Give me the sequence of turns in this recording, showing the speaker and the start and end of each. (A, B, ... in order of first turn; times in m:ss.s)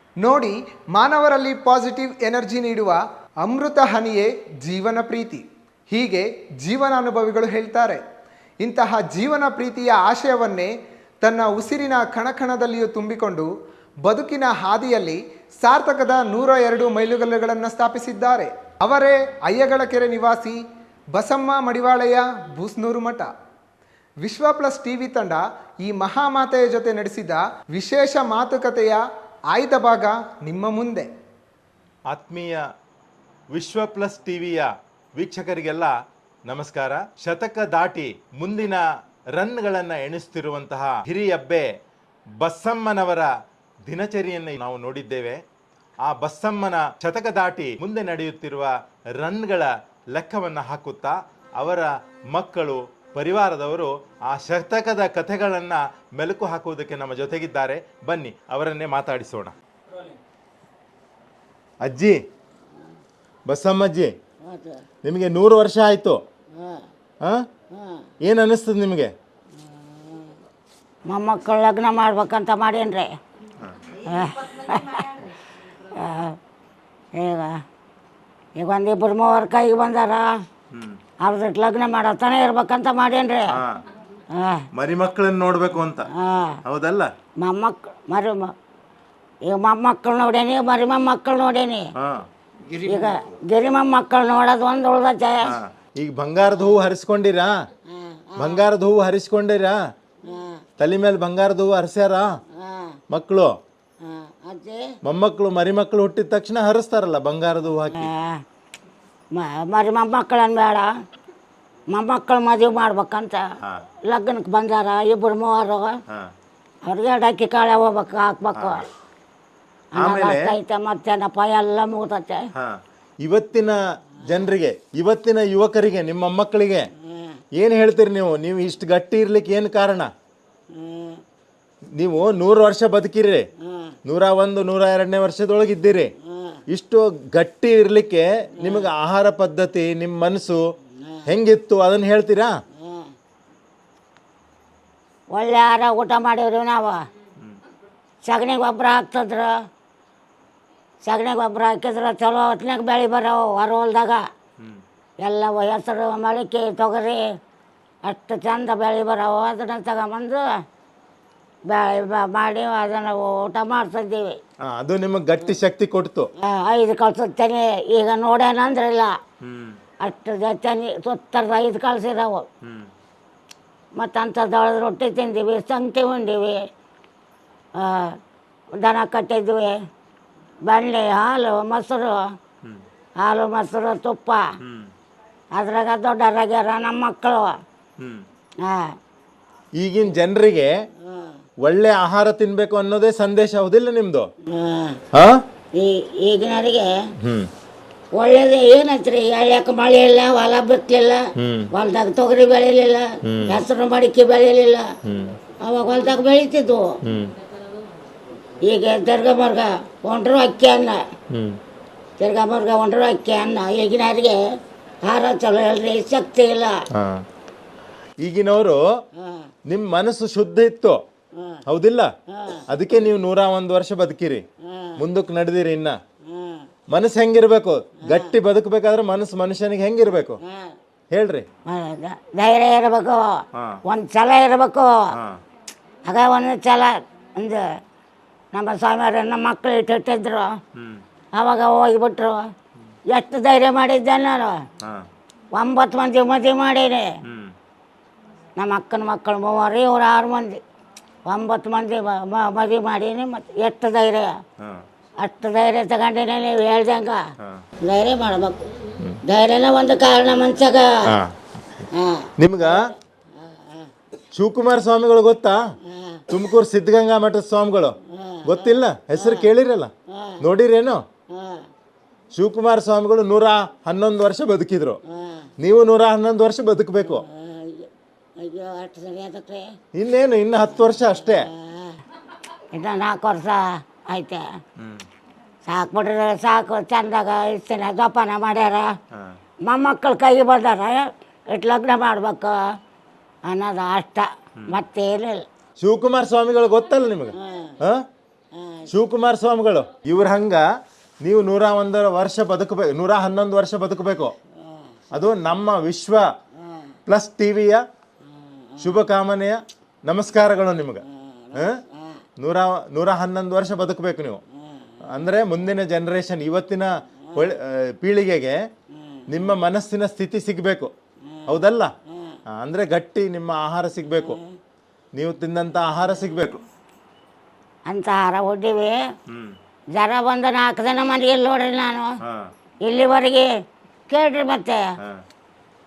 0:00.2-0:08.0 A
0:08.6-0:13.5 A
0:14.0-0:20.6 A
0:21.1-0:23.3 A
0:24.2-0:31.1 A
0:32.1-0:32.6 B
0:33.5-0:35.9 B
0:36.5-0:41.7 B
0:42.4-0:43.3 B
0:43.8-0:45.4 B
0:46.0-0:59.6 B
1:01.8-1:02.2 B
1:03.5-1:04.1 B
1:04.4-1:04.8 C
1:05.0-1:06.2 B
1:06.6-1:06.9 C
1:07.7-1:08.1 C
1:08.2-1:09.1 B
1:09.7-1:10.3 C
1:11.1-1:13.1 C
1:13.9-1:16.4 C
1:17.1-1:17.6 C
1:18.6-1:20.3 C
1:20.7-1:21.0 B
1:21.2-1:23.6 C
1:23.5-1:23.8 B
1:24.3-1:24.7 C
1:24.7-1:26.1 B
1:26.1-1:26.6 C
1:26.6-1:27.1 B
1:27.4-1:28.5 C
1:29.5-1:31.9 C
1:32.0-1:32.3 B
1:32.8-1:35.5 C
1:35.4-1:37.5 B
1:37.9-1:38.6 C
1:38.4-1:39.8 B
1:40.3-1:40.6 C
1:40.8-1:42.3 B
1:42.6-1:43.0 C
1:43.1-1:43.5 B
1:44.0-1:44.9 C
1:45.0-1:48.1 B
1:47.9-1:48.4 C
1:49.3-1:50.9 C
1:51.9-1:53.4 C
1:54.0-1:56.0 C
1:56.9-1:58.9 C
1:58.6-1:58.8 B
2:00.0-2:02.4 C
2:00.0-2:00.6 B
2:02.6-2:06.9 B
2:07.0-2:07.4 C
2:07.6-2:10.1 B
2:10.7-2:11.2 C
2:12.0-2:13.5 B
2:13.6-2:14.0 C
2:14.0-2:16.1 B
2:16.3-2:16.6 C
2:16.7-2:20.6 B
2:18.6-2:18.9 C
2:21.3-2:22.5 B
2:22.8-2:23.1 C
2:25.3-2:27.0 C
2:28.2-2:29.5 C
2:31.0-2:34.2 C
2:35.2-2:37.2 C
2:38.1-2:40.4 C
2:41.7-2:44.4 C
2:44.6-2:46.3 B
2:46.4-2:49.1 C
2:49.4-2:49.8 B
2:50.0-2:52.5 C
2:52.6-2:52.9 B
2:54.0-2:56.6 C
2:57.8-2:58.2 C
2:58.8-2:59.8 C
3:00.7-3:02.2 C
3:03.2-3:04.4 C
3:04.6-3:04.9 B
3:05.6-3:07.5 C
3:08.0-3:08.2 B
3:08.6-3:08.9 C
3:09.8-3:10.7 B
3:11.0-3:11.4 C
3:11.6-3:14.3 B
3:14.5-3:15.0 C
3:15.1-3:15.4 B
3:15.8-3:16.9 C
3:17.2-3:17.5 B
3:18.2-3:24.9 C
3:21.4-3:21.7 B
3:23.2-3:23.6 B
3:25.0-3:25.4 B
3:25.6-3:27.0 C
3:27.0-3:27.3 B
3:28.6-3:31.0 C
3:31.3-3:31.6 B
3:32.2-3:34.4 C
3:35.0-3:36.8 C
3:36.9-3:37.2 B
3:38.2-3:38.8 B
3:39.2-3:39.5 C
3:39.7-3:41.0 B
3:41.4-3:41.6 C
3:41.7-3:42.1 B
3:42.3-3:42.6 C
3:42.7-3:44.4 B
3:44.6-3:45.0 C
3:45.0-3:46.0 B
3:46.3-3:46.7 C
3:46.9-3:50.4 B
3:48.0-3:48.3 C
3:50.4-3:50.7 C
3:51.1-3:51.5 B
3:51.7-3:55.0 C
3:53.5-3:53.8 B
3:55.1-3:55.4 B
3:56.1-3:57.6 C
3:58.5-4:00.5 C
4:00.8-4:01.0 B
4:01.4-4:02.4 C
4:03.1-4:04.6 C
4:04.8-4:05.1 B
4:05.5-4:07.1 C
4:07.2-4:07.5 B
4:08.6-4:10.6 C
4:11.3-4:14.4 C
4:14.6-4:14.8 B
4:15.2-4:17.2 C
4:17.8-4:18.7 C
4:19.2-4:21.0 C
4:21.1-4:21.8 B
4:21.9-4:23.9 C
4:22.4-4:22.8 B
4:24.3-4:25.6 B
4:25.9-4:26.2 C
4:26.3-4:31.0 B
4:28.1-4:29.5 C
4:30.1-4:30.4 C
4:31.3-4:31.7 C
4:32.3-4:35.0 B
4:35.1-4:35.5 C
4:35.6-4:37.2 B
4:37.0-4:39.7 C
4:39.9-4:41.5 B
4:40.9-4:42.0 C
4:42.7-4:44.4 C
4:44.8-4:45.0 B
4:45.7-4:48.9 C
4:49.6-4:52.5 C
4:53.5-4:55.4 C
4:55.8-4:58.0 B
4:57.4-4:57.8 C
4:58.6-4:58.9 C
4:58.9-5:00.6 B
5:01.2-5:04.4 B
5:04.7-5:05.0 C
5:05.1-5:06.3 B
5:07.1-5:07.8 B
5:08.6-5:08.9 C
5:08.8-5:11.0 B
5:11.1-5:12.2 C
5:11.6-5:11.8 B
5:12.4-5:14.4 B
5:15.0-5:18.6 B
5:19.3-5:20.9 B
5:21.5-5:21.9 B
5:22.6-5:24.4 B
5:25.2-5:26.6 B
5:27.9-5:29.0 C
5:29.3-5:29.6 B
5:30.0-5:32.1 C
5:32.2-5:32.5 B
5:32.8-5:33.5 C
5:34.1-5:34.9 C